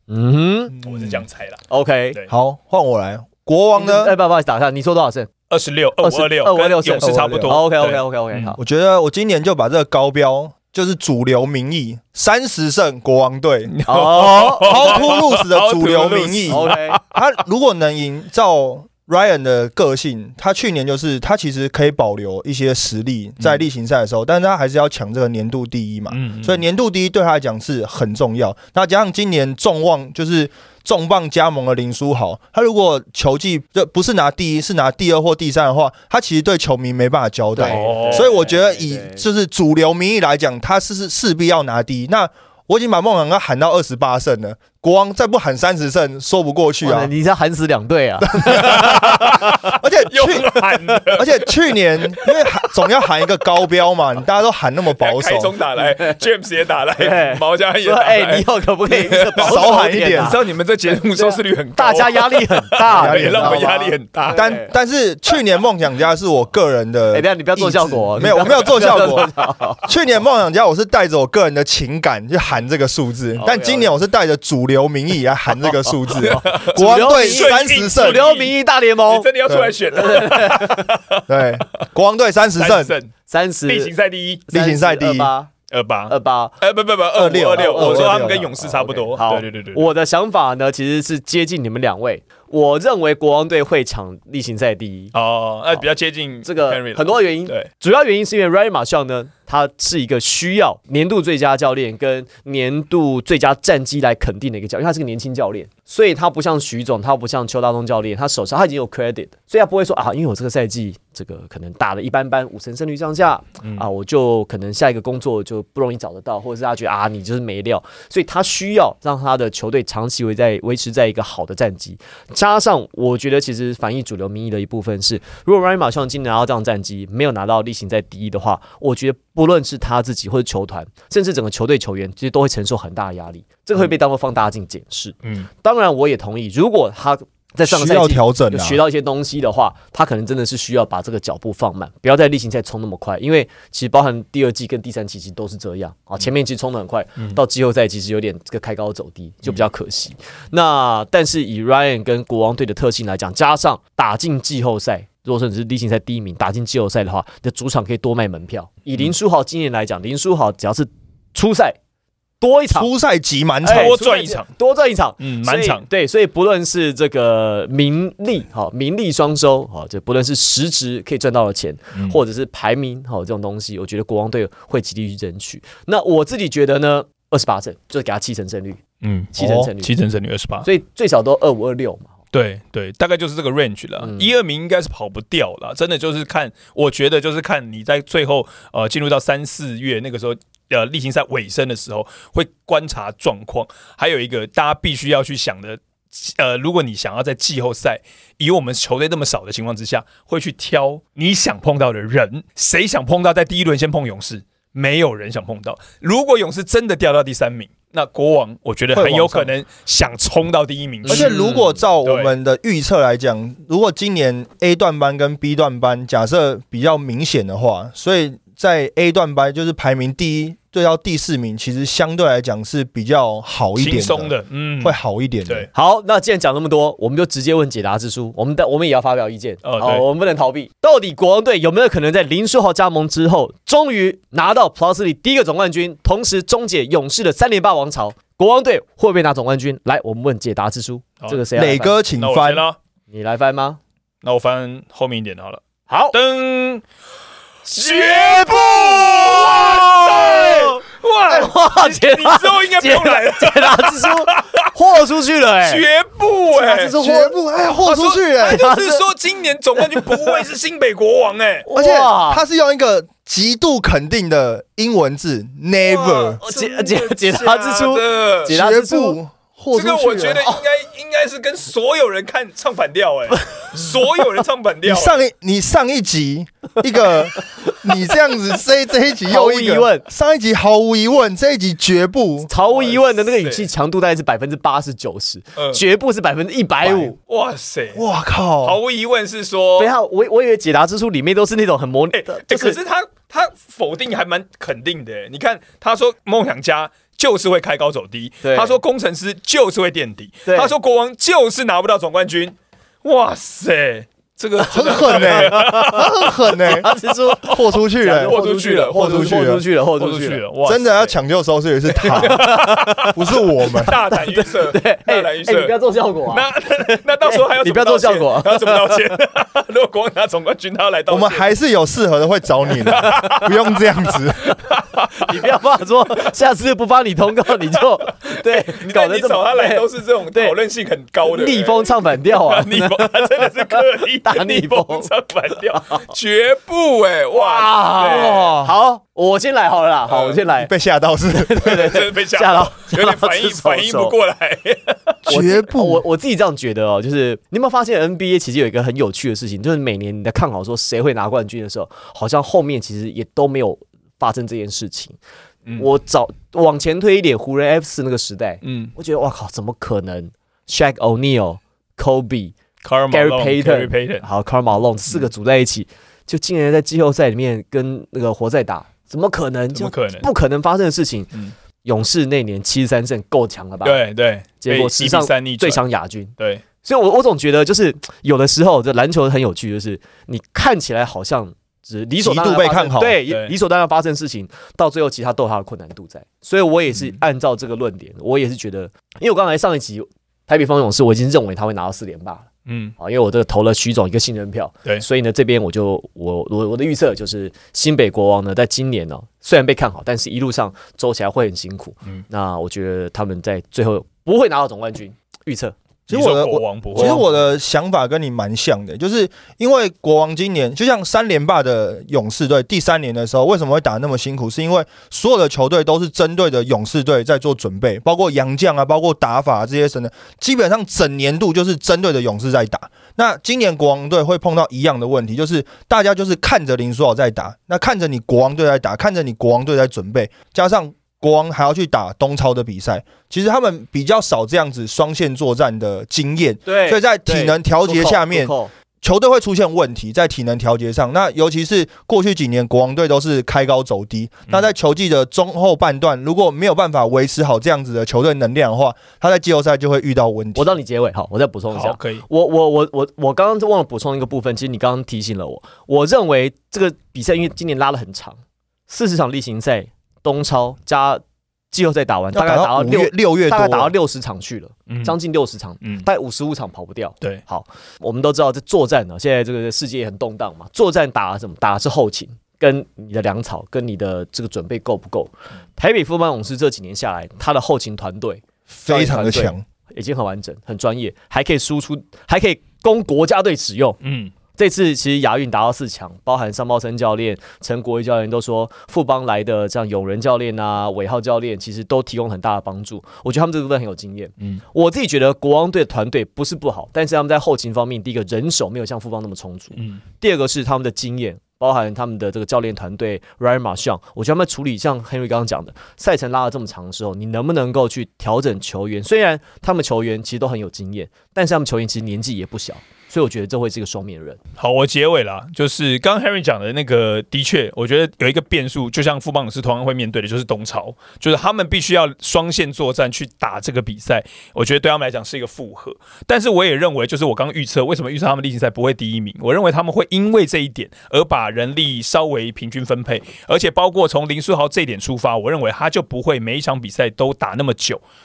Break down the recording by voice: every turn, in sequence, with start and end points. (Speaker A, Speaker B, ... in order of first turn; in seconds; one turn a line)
Speaker A: 0.1-0.8
Speaker B: 0.8-1.6
Speaker A: 1.7-2.2
Speaker C: 2.3-4.1
Speaker A: 3.8-5.3
Speaker B: 5.5-8.6
Speaker A: 6.0-8.6
Speaker C: 7.3-7.5
Speaker C: 8.6-13.7
Speaker B: 13.7-17.2
Speaker A: 13.9-15.1
Speaker C: 14.3-47.1
Speaker A: 16.5-17.0
Speaker B: 26.1-26.6
Speaker A: 37.5-39.2
Speaker B: 37.6-38.3
Speaker A: 46.8-49.8
Speaker C: 48.2-55.5
Speaker B: 48.6-51.5
Speaker A: 50.8-51.1
Speaker B: 54.9-64.5
Speaker A: 55.8-56.2
Speaker A: 57.0-60.4
Speaker C: 59.4-60.4
Speaker A: 61.1-64.7
Speaker C: 62.9-63.7
Speaker C: 64.3-69.3
Speaker A: 67.1-69.9
Speaker C: 69.8-78.2
Speaker A: 73.4-73.9
Speaker A: 75.6-79.3
Speaker B: 76.2-81.8
Speaker C: 79.5-79.8
Speaker A: 79.9-80.9
Speaker C: 81.3-82.9
Speaker B: 82.6-83.1
Speaker A: 83.3-83.9
Speaker B: 83.7-84.5
Speaker A: 84.5-85.5
Speaker C: 84.5-85.3
Speaker B: 85.7-89.9
Speaker A: 86.1-86.6
Speaker C: 87.1-88.5
Speaker A: 87.5-95.1
Speaker B: 95.1-97.7
Speaker A: 96.4-161.8
Speaker B: 135.2-135.5
Speaker C: 137.7-138.8
Speaker A: 162.4-162.9
Speaker C: 162.7-164.0
Speaker A: 163.6-178.8
Speaker B: 163.7-164.5
Speaker B: 165.2-165.8
Speaker B: 179.0-180.7
Speaker A: 179.3-179.9
Speaker C: 179.4-179.7
Speaker A: 180.7-182.1
Speaker B: 182.3-211.4
Speaker A: 184.0-184.3
Speaker C: 208.9-209.5
Speaker A: 211.1-211.8
Speaker C: 211.1-225.7
Speaker B: 212.0-212.3
Speaker B: 223.8-225.7
Speaker A: 225.7-242.0
Speaker B: 229.6-230.1
Speaker C: 241.5-242.6
Speaker B: 242.2-242.8
Speaker A: 243.1-243.8
Speaker B: 244.2-246.8
Speaker A: 245.9-246.2
Speaker A: 247.7-255.8
Speaker B: 247.7-254.7
Speaker B: 255.6-256.9
Speaker A: 256.5-257.4
Speaker C: 256.9-258.6
Speaker B: 257.8-261.7
Speaker A: 258.4-259.0
Speaker A: 259.8-260.4
Speaker A: 261.7-262.4
Speaker C: 261.8-266.4
Speaker B: 265.9-268.6
Speaker A: 266.1-269.2
Speaker C: 268.5-270.5
Speaker B: 269.7-275.2
Speaker C: 274.9-282.5
Speaker A: 279.2-280.1
Speaker A: 282.5-287.2
Speaker B: 282.6-283.7
Speaker B: 285.6-285.8
Speaker B: 287.2-288.0
Speaker C: 287.9-288.8
Speaker B: 288.6-289.9
Speaker A: 289.8-292.8
Speaker B: 292.1-311.1
Speaker A: 298.4-298.8
Speaker A: 300.5-300.7
Speaker C: 304.7-308.4
Speaker A: 305.1-310.4
Speaker C: 308.9-309.6
Speaker C: 310.6-313.9
Speaker B: 311.9-315.7
Speaker A: 312.0-319.2
Speaker B: 316.3-321.5
Speaker C: 321.1-324.6
Speaker B: 322.8-325.4
Speaker A: 322.9-323.5
Speaker A: 325.1-330.6
Speaker B: 327.7-338.4
Speaker A: 331.2-336.1
Speaker A: 337.3-340.7
Speaker C: 338.0-338.7
Speaker B: 340.1-340.4
Speaker C: 340.6-341.7
Speaker A: 341.3-344.1
Speaker B: 341.6-345.2
Speaker C: 345.3-346.0
Speaker A: 345.3-355.2
Speaker A: 355.8-362.6
Speaker B: 358.6-358.9
Speaker B: 362.8-364.3
Speaker A: 363.1-371.3
Speaker B: 369.7-370.3
Speaker A: 371.8-374.0
Speaker B: 373.8-375.8
Speaker A: 374.6-405.8
Speaker B: 376.4-376.6
Speaker C: 382.2-383.2
Speaker B: 383.2-383.5
Speaker B: 392.7-393.0
Speaker C: 406.1-450.7
Speaker B: 406.1-407.3
Speaker A: 407.0-407.4
Speaker A: 436.7-438.7
Speaker A: 450.6-484.0
Speaker B: 451.7-452.2
Speaker C: 462.3-463.9
Speaker B: 464.9-465.2
Speaker B: 465.8-466.1
Speaker C: 478.7-479.6
Speaker B: 484.0-484.3
Speaker A: 484.6-514.4
Speaker B: 499.8-500.0
Speaker B: 514.6-538.0